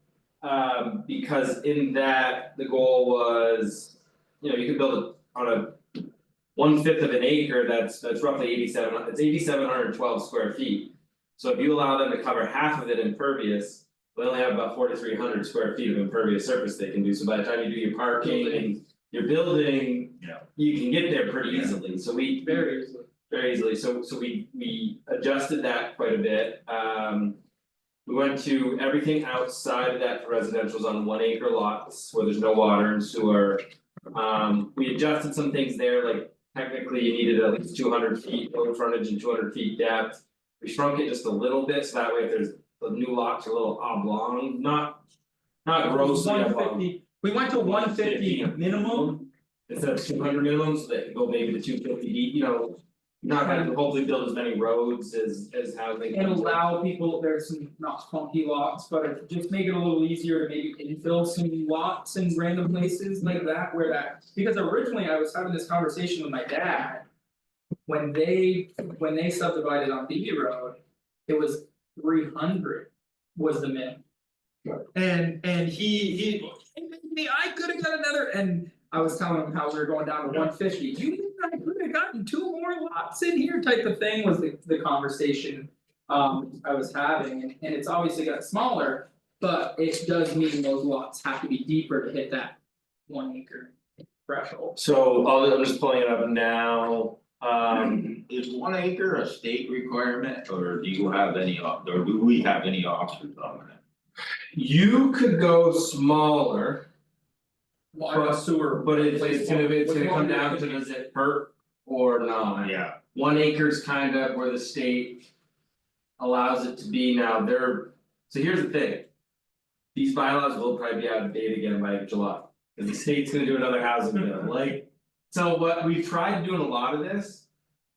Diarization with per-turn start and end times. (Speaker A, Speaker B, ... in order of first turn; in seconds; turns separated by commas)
Speaker A: 0.4-5.8, Speaker A: 6.5-22.7, Speaker B: 18.2-18.7, Speaker C: 20.2-20.4, Speaker C: 21.4-21.7, Speaker B: 22.4-23.1, Speaker A: 23.3-27.4, Speaker A: 28.0-45.0, Speaker A: 45.6-46.9, Speaker B: 45.9-49.2, Speaker A: 47.6-49.2, Speaker A: 49.7-56.6, Speaker B: 53.4-53.8, Speaker B: 56.1-67.0, Speaker B: 67.8-74.0, Speaker B: 74.9-93.7, Speaker B: 94.3-94.7, Speaker A: 94.7-98.2, Speaker C: 98.2-103.8, Speaker A: 104.5-106.8, Speaker B: 107.9-110.7, Speaker A: 108.1-115.3, Speaker C: 112.6-113.0, Speaker A: 116.2-119.1, Speaker A: 119.9-127.5